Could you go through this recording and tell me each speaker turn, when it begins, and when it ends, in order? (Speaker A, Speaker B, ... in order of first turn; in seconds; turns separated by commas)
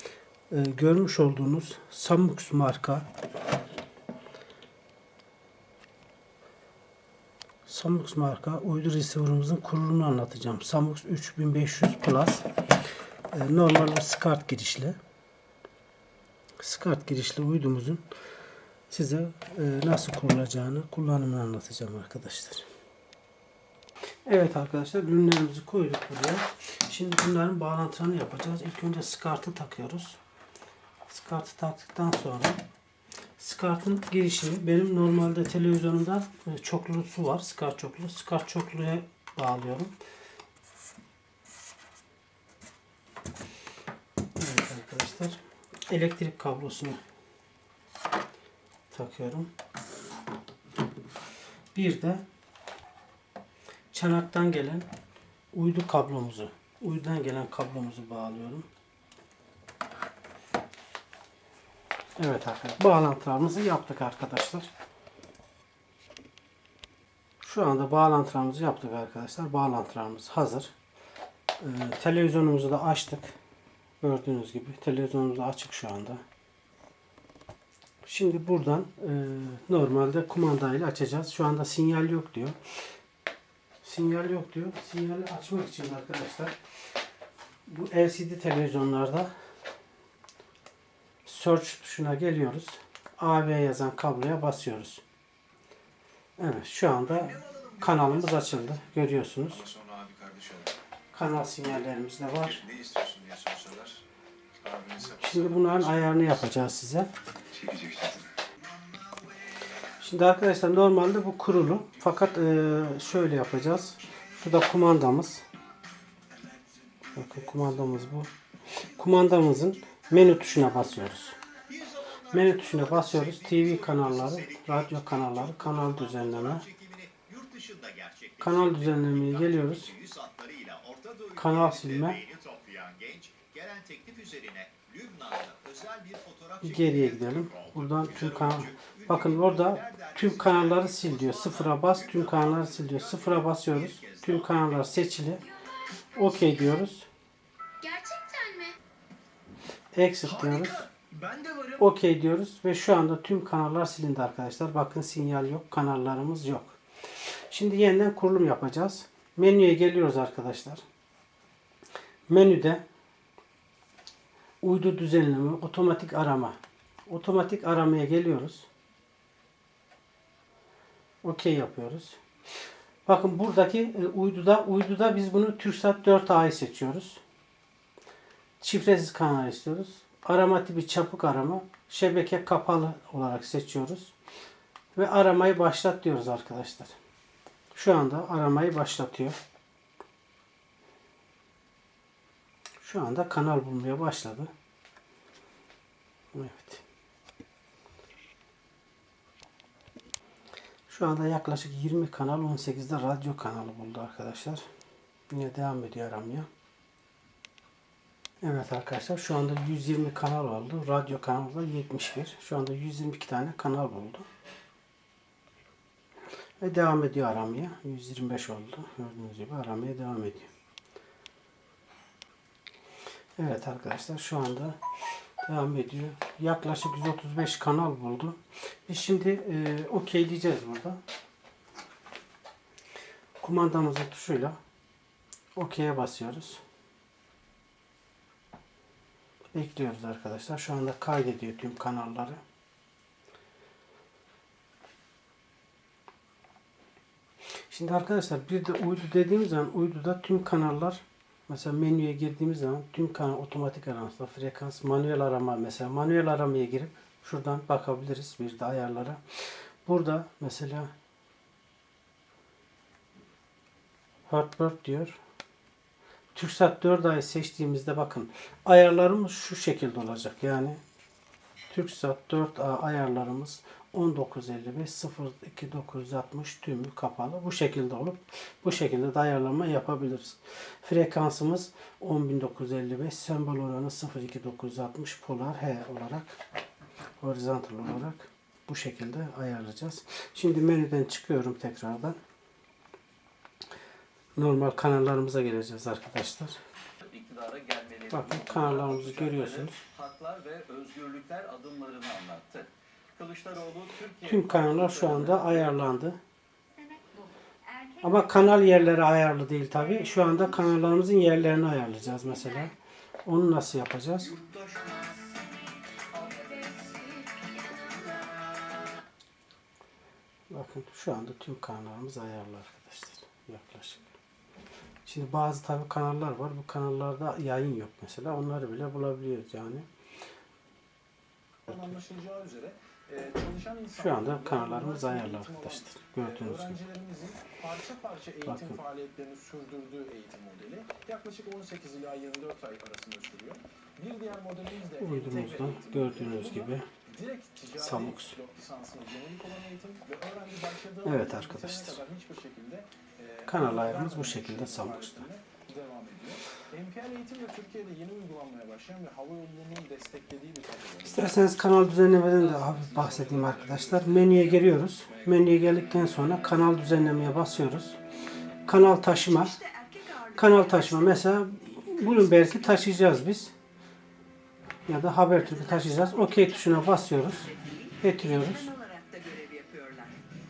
Speaker A: 0.5-3.0, Speaker A: 7.7-12.5, Speaker A: 13.3-15.0, Speaker A: 16.6-18.0, Speaker A: 18.9-22.6, Speaker A: 24.2-30.2, Speaker A: 31.1-32.6, Speaker A: 33.4-39.9, Speaker A: 44.4-47.0, Speaker A: 48.9-49.5, Speaker A: 51.7-52.2, Speaker A: 53.9-54.9, Speaker A: 55.5-58.7, Speaker A: 62.2-64.7, Speaker A: 67.4-70.7, Speaker A: 71.6-73.3, Speaker A: 74.0-76.2, Speaker A: 78.0-82.6, Speaker A: 83.8-86.5, Speaker A: 87.7-89.3, Speaker A: 91.2-95.0, Speaker A: 96.4-99.7, Speaker B: 97.5-97.7, Speaker B: 99.7-100.7, Speaker A: 101.1-102.7, Speaker B: 102.7-104.0, Speaker B: 104.6-105.1, Speaker A: 105.1-107.1, Speaker B: 107.6-108.2, Speaker A: 110.0-115.4, Speaker A: 117.1-118.3, Speaker A: 118.9-121.4, Speaker B: 121.6-122.3, Speaker A: 122.2-126.7, Speaker B: 127.4-128.1, Speaker A: 128.4-129.9, Speaker A: 131.3-132.3, Speaker B: 132.7-136.3, Speaker A: 136.6-145.5, Speaker A: 146.1-147.1, Speaker C: 147.8-148.8, Speaker A: 149.9-150.9, Speaker D: 150.6-151.6, Speaker A: 151.8-156.8, Speaker A: 157.5-160.8, Speaker A: 162.3-162.8, Speaker A: 164.6-168.7, Speaker A: 171.2-172.2, Speaker A: 173.1-177.2, Speaker A: 178.6-184.1, Speaker A: 184.9-186.9, Speaker A: 187.7-189.4, Speaker A: 192.8-194.5, Speaker A: 196.3-196.8, Speaker A: 200.9-204.6, Speaker A: 205.3-206.5, Speaker A: 208.4-214.3, Speaker A: 216.6-220.5, Speaker A: 223.4-224.8, Speaker A: 225.4-231.0, Speaker A: 233.4-234.6, Speaker A: 235.5-236.6, Speaker A: 239.5-242.4, Speaker A: 247.7-259.2, Speaker A: 259.9-260.9, Speaker A: 264.3-265.2, Speaker A: 266.3-270.8, Speaker A: 271.7-286.4, Speaker A: 287.2-292.2, Speaker A: 294.4-296.6, Speaker B: 297.0-304.2, Speaker A: 298.1-299.8, Speaker A: 304.2-306.2, Speaker D: 304.6-305.1, Speaker C: 306.7-307.9, Speaker A: 308.0-314.4, Speaker B: 314.4-315.5, Speaker C: 315.0-315.7, Speaker B: 316.1-318.8, Speaker C: 316.3-317.8, Speaker A: 320.5-324.1, Speaker A: 325.0-329.9, Speaker D: 331.7-361.4, Speaker A: 334.0-336.8, Speaker A: 338.4-338.8, Speaker A: 345.0-346.8, Speaker A: 347.8-348.3, Speaker A: 351.0-352.0, Speaker A: 353.5-355.2, Speaker A: 361.0-368.0, Speaker D: 362.4-364.1, Speaker A: 368.6-369.6, Speaker B: 369.5-371.2, Speaker A: 370.3-373.5, Speaker B: 371.8-372.5, Speaker A: 374.9-378.7, Speaker B: 375.5-380.2